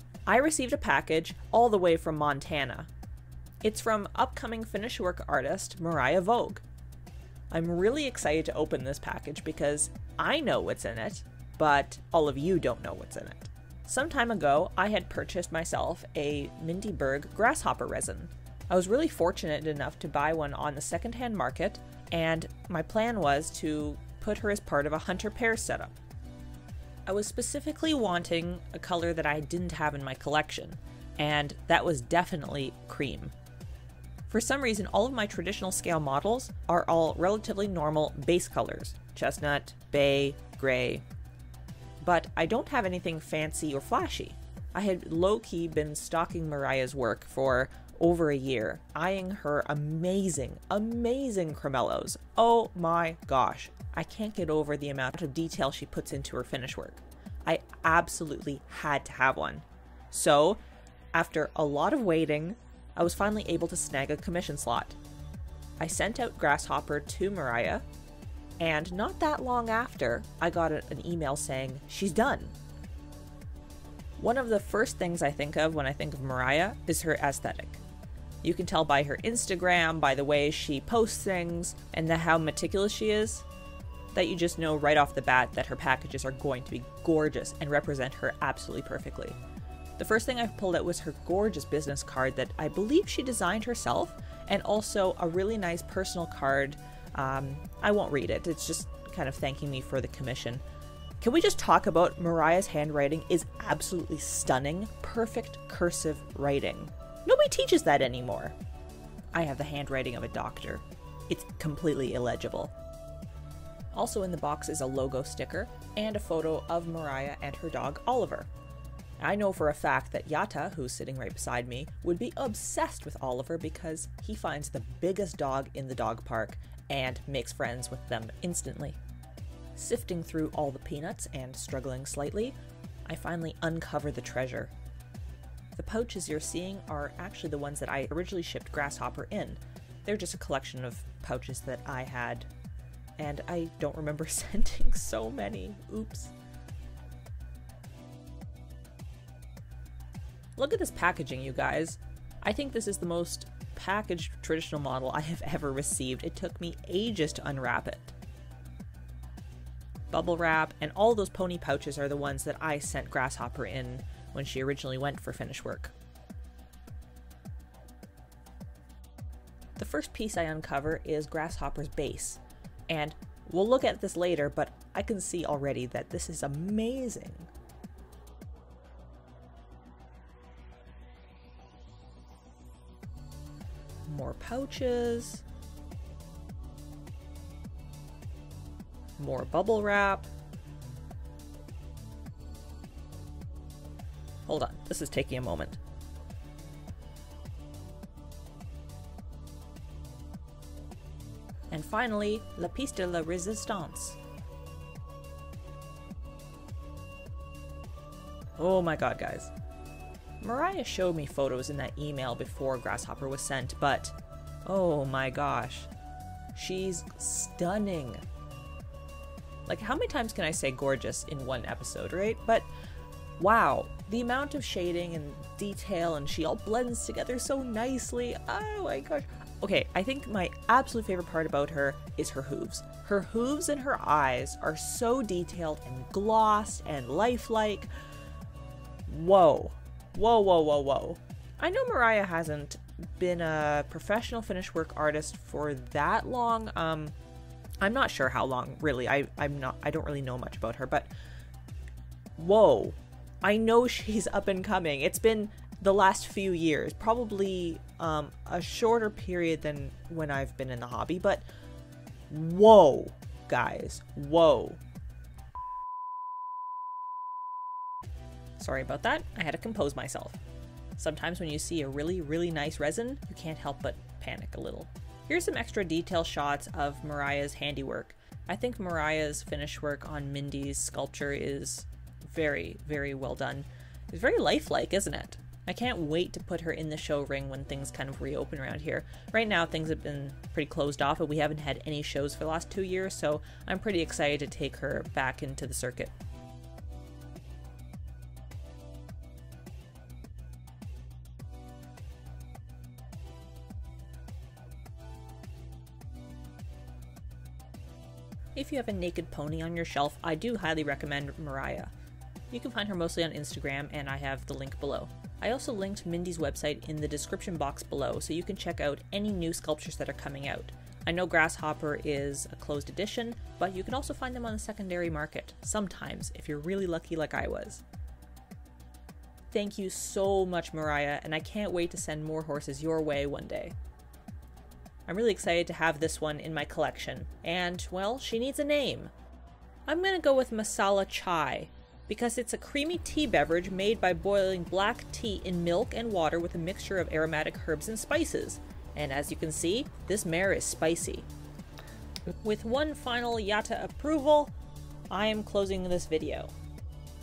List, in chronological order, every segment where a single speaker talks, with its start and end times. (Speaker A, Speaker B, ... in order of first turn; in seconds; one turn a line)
Speaker A: 0.2-2.9
Speaker A: 3.6-6.6
Speaker A: 7.5-25.9
Speaker A: 27.1-33.3
Speaker A: 34.3-41.0
Speaker A: 42.0-60.6
Speaker A: 61.1-65.0
Speaker A: 65.8-67.8
Speaker A: 68.6-72.5
Speaker A: 74.2-77.8
Speaker A: 78.4-83.5
Speaker A: 84.1-89.4
Speaker A: 90.0-100.6
Speaker A: 101.2-108.5
Speaker A: 109.3-112.7
Speaker A: 113.9-118.5
Speaker A: 119.2-129.0
Speaker A: 129.7-134.7
Speaker A: 135.7-142.5
Speaker A: 143.2-146.3
Speaker A: 150.6-158.1
Speaker A: 160.1-165.9
Speaker A: 169.8-177.5
Speaker A: 184.1-185.4
Speaker A: 189.2-190.3
Speaker A: 194.4-195.8
Speaker A: 201.7-204.2
Speaker A: 208.6-209.5
Speaker A: 210.4-215.9
Speaker A: 216.5-218.2
Speaker A: 219.7-222.7
Speaker A: 223.4-237.9
Speaker A: 239.1-247.1
Speaker A: 247.8-251.1
Speaker A: 252.4-261.4
Speaker A: 262.3-264.8
Speaker A: 268.6-270.4
Speaker A: 271.0-296.1
Speaker A: 308.5-311.9
Speaker A: 312.5-327.8
Speaker A: 329.5-333.8
Speaker A: 335.1-339.1
Speaker A: 339.9-351.3
Speaker A: 352.4-354.5
Speaker A: 355.1-356.5